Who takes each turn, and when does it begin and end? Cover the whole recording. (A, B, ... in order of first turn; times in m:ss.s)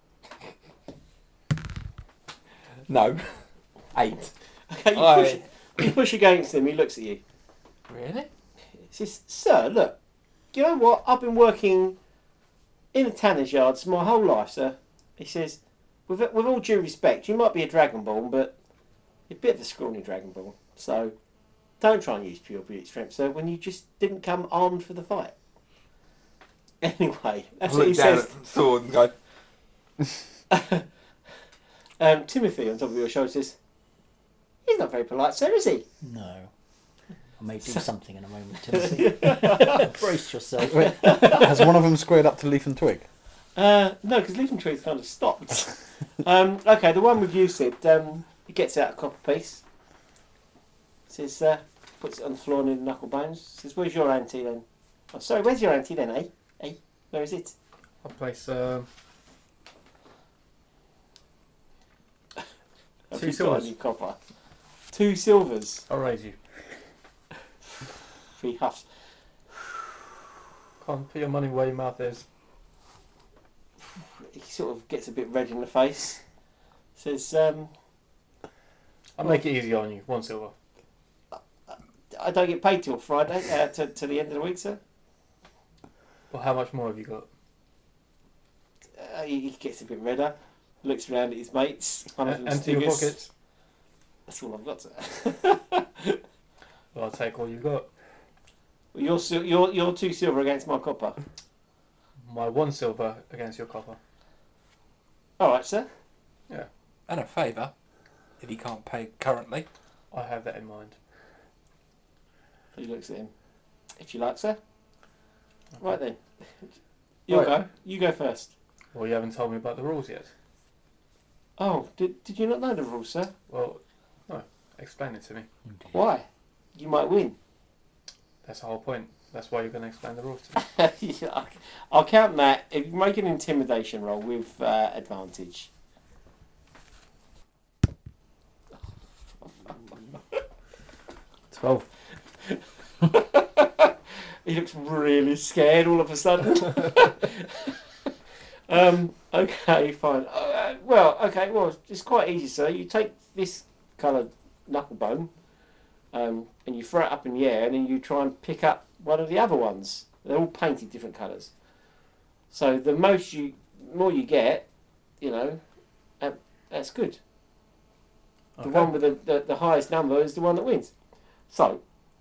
0:02.9-0:03.4 A
0:03.9-0:04.3 A
0:04.7-0:07.2 B
0:04.9-0:05.9 A
0:07.9-0:08.3 A
0:08.9-0:10.0 B
0:10.5-0:12.0 B
0:12.9-0:18.6 B
0:19.3-0:21.2 B
0:21.8-0:25.3 B
0:26.8-0:28.4 B
0:27.6-0:29.1 A
0:30.5-0:30.9 B
0:32.0-0:33.6 B
0:34.7-0:35.9 B
0:36.0-0:36.5 C
0:37.4-0:41.4 C
0:38.8-0:39.9 B
0:40.6-0:43.0 D
0:40.9-0:41.6 B
0:43.6-0:49.6 B
0:51.1-0:57.6 B
0:58.0-0:58.9 E
1:03.1-1:04.2 B
1:03.1-1:03.7 E
1:04.9-1:05.9 B
1:05.9-1:06.4 E
1:08.4-1:08.9 B
1:10.8-1:12.3 E
1:14.0-1:16.2 B
1:17.0-1:17.7 B
1:19.2-1:20.5 E
1:21.3-1:24.8 B
1:26.3-1:27.3 E
1:29.0-1:33.3 B
1:32.2-1:33.3 E
1:34.3-1:36.2 B
1:36.9-1:37.9 E
1:38.9-1:41.2 B
1:42.2-1:44.0 E
1:45.4-1:45.9 B
1:47.1-1:47.7 A
1:48.4-1:49.7 A
1:50.1-1:51.0 E
1:52.8-1:53.3 B
1:54.0-1:54.6 B
1:55.8-1:56.2 B
1:57.3-1:58.5 B
1:57.3-1:57.6 E
1:58.9-2:00.3 E
2:01.6-2:03.3 B
2:03.5-2:05.5 E
2:05.9-2:07.4 B
2:08.4-2:10.6 E
2:10.6-2:15.7 B
2:19.5-2:20.2 B
2:21.5-2:21.9 E
2:22.4-2:23.9 B
2:24.4-2:27.8 B
2:28.7-2:35.3 B
2:36.1-2:41.5 B
2:42.5-2:44.7 B
2:45.2-2:45.6 B
2:46.2-2:47.2 B
2:48.6-2:48.9 E
2:48.6-2:50.9 B
2:51.5-2:51.8 B